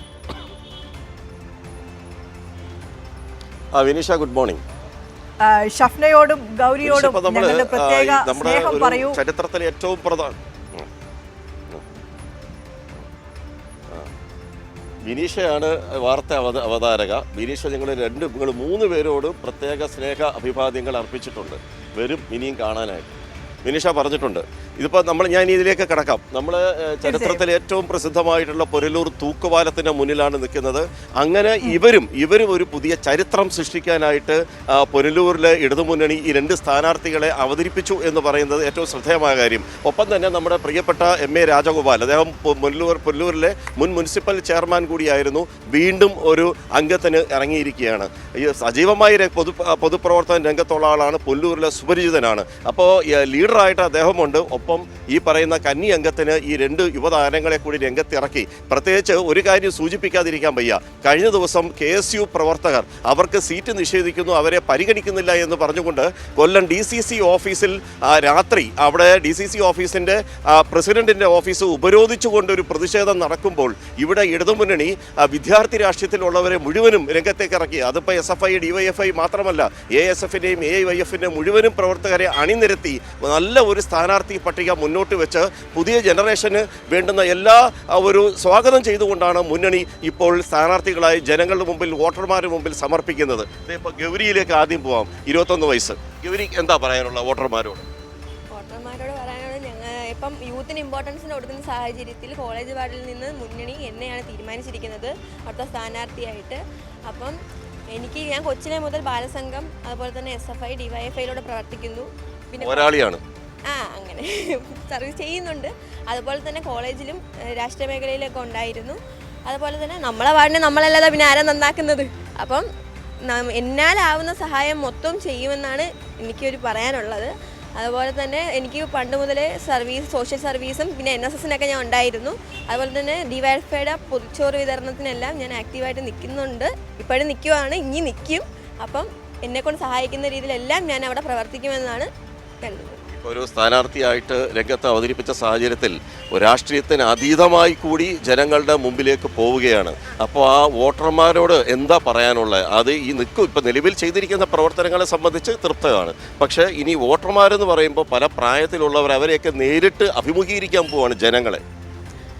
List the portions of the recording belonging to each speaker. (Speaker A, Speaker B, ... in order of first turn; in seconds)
Speaker A: 3.7-4.6, 6.8-10.9, 15.0-23.1, 23.6-97.9, 112.6-113.2, 143.1-161.6
Speaker B: 5.4-9.2, 27.0-27.4
Speaker C: 98.5-107.4, 107.9-113.0, 113.7-122.7, 123.2-142.1, 142.6-143.0